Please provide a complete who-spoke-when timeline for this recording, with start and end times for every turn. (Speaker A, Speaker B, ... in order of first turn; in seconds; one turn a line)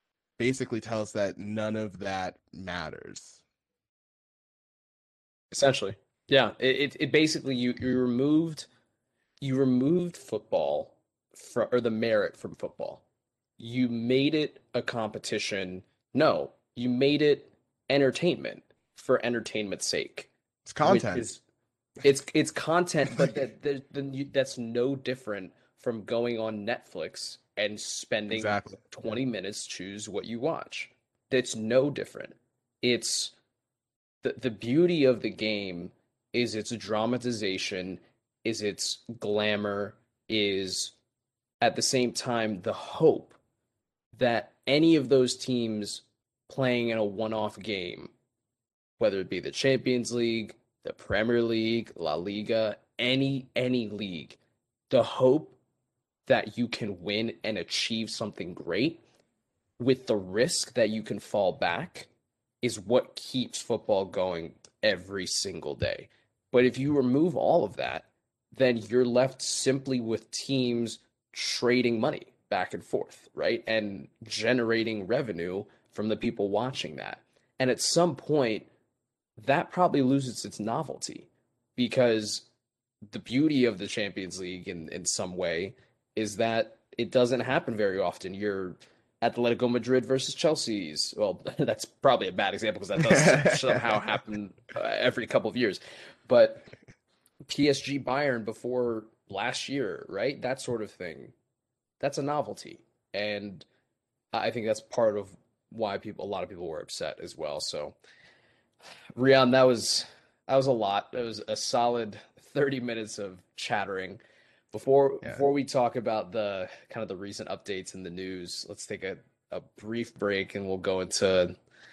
Speaker A: 0.4-3.4
Speaker B: 5.5-8.7
Speaker B: 9.4-13.0
Speaker B: 13.6-20.3
Speaker A: 20.6-21.3
Speaker B: 20.8-21.4
Speaker B: 22.0-33.3
Speaker A: 28.3-28.8
Speaker B: 34.2-40.9
Speaker B: 41.6-43.4
Speaker B: 44.1-48.1
Speaker B: 49.0-54.4
Speaker B: 54.9-55.6
Speaker B: 56.2-59.0
Speaker B: 59.8-62.1
Speaker B: 62.6-78.7
Speaker B: 79.4-82.5
Speaker B: 83.1-96.7
Speaker A: 93.0-94.2
Speaker B: 97.5-101.3
Speaker B: 102.0-103.7
Speaker B: 104.3-108.0
Speaker B: 109.1-114.2
Speaker B: 114.7-121.5